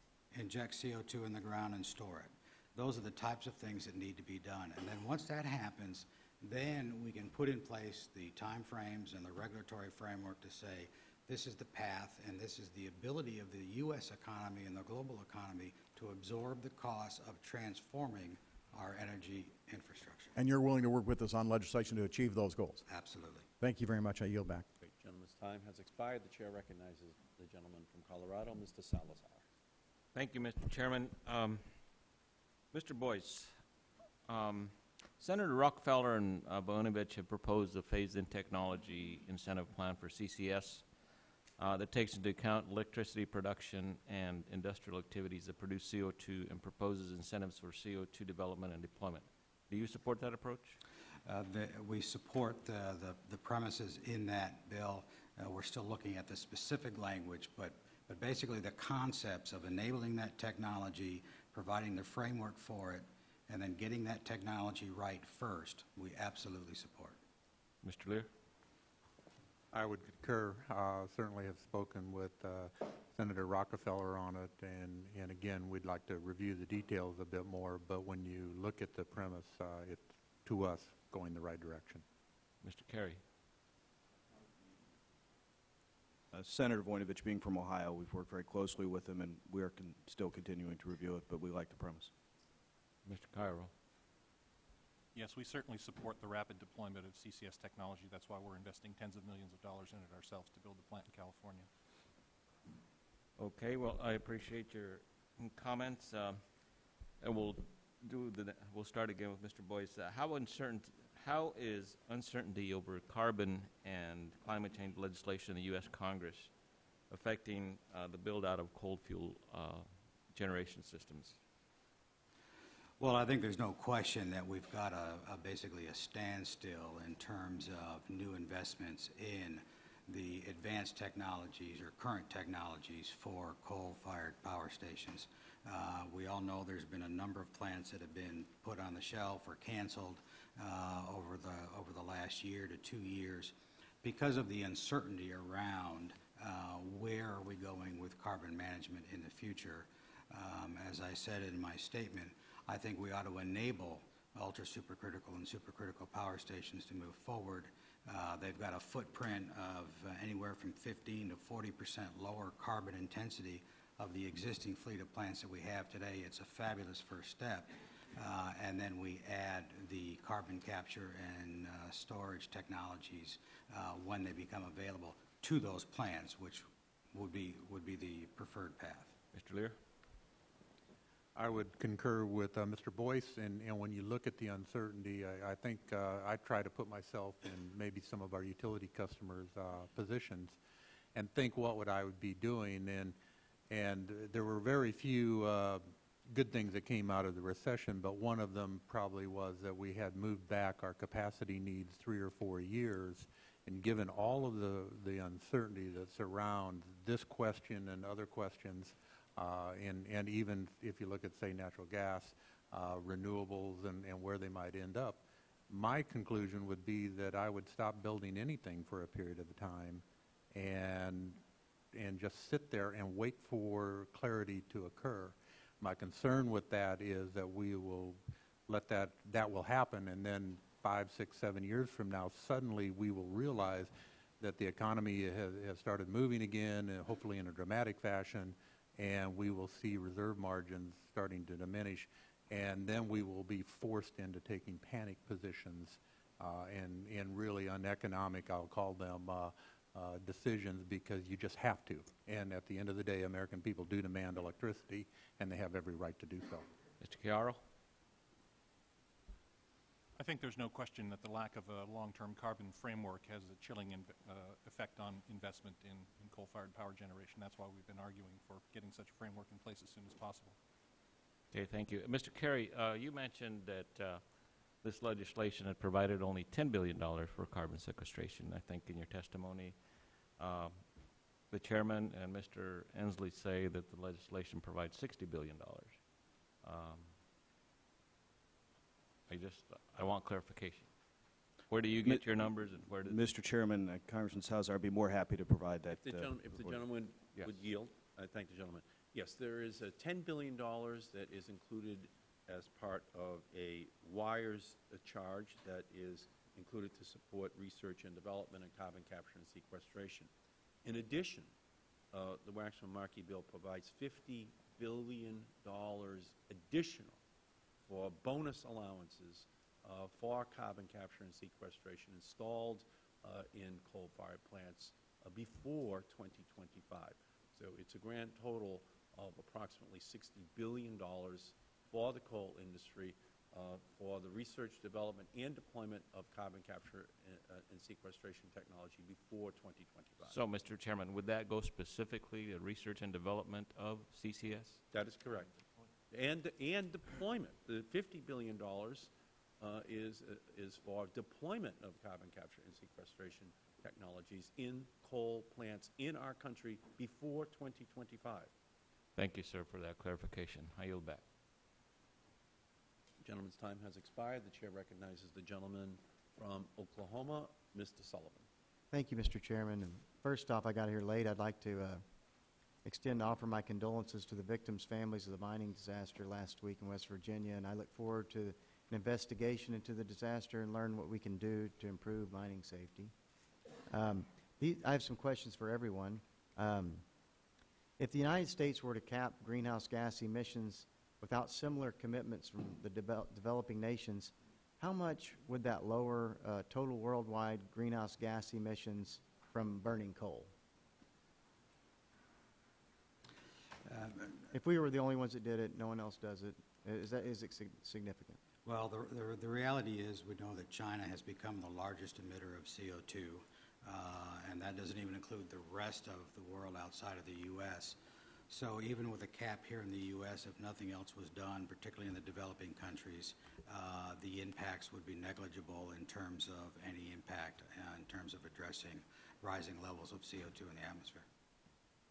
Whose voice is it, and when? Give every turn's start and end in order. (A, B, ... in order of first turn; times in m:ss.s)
0:00.3-0:20.3 A
0:20.4-0:22.8 B
0:22.9-0:23.5 A
0:23.6-0:24.7 B
0:24.8-0:29.4 C
0:30.1-0:31.6 D
0:32.7-0:33.6 D
0:34.3-0:40.9 D
0:41.6-0:50.8 D
0:51.3-1:07.2 A
1:07.8-1:08.3 D
1:09.7-1:22.0 E
1:22.6-1:23.2 D
1:26.3-1:32.1 F
1:33.0-1:33.7 D
1:35.2-1:41.7 G
1:43.4-1:46.4 D
1:47.2-1:56.5 D
1:57.1-2:01.4 D
2:03.0-2:59.2 A
2:59.3-2:59.8 D
3:01.4-3:10.6 E
3:11.2-3:13.2 E
3:13.7-3:41.4 E
3:41.9-4:16.7 E
4:17.0-4:17.6 D
4:20.2-4:30.6 G
4:31.5-4:39.8 D
4:40.4-4:41.0 D
4:41.5-4:46.0 D
4:46.6-4:47.2 D
4:49.3-4:50.9 D
4:51.7-4:53.3 D
4:52.0-4:52.5 F
4:53.0-4:56.7 F
4:55.9-5:10.3 C
5:10.8-5:11.5 C
5:12.1-5:17.2 C
5:17.9-5:40.4 C
5:40.3-5:44.8 D
5:44.9-5:45.5 C
5:46.1-5:58.5 C
5:59.2-6:01.2 D
6:03.2-6:08.5 C
6:08.9-6:12.0 H
6:12.8-6:23.1 H
6:23.9-6:27.1 H
6:28.0-6:40.5 H
6:43.9-6:44.4 A
6:44.5-6:48.4 H
6:48.6-6:58.0 A
6:58.5-7:11.3 A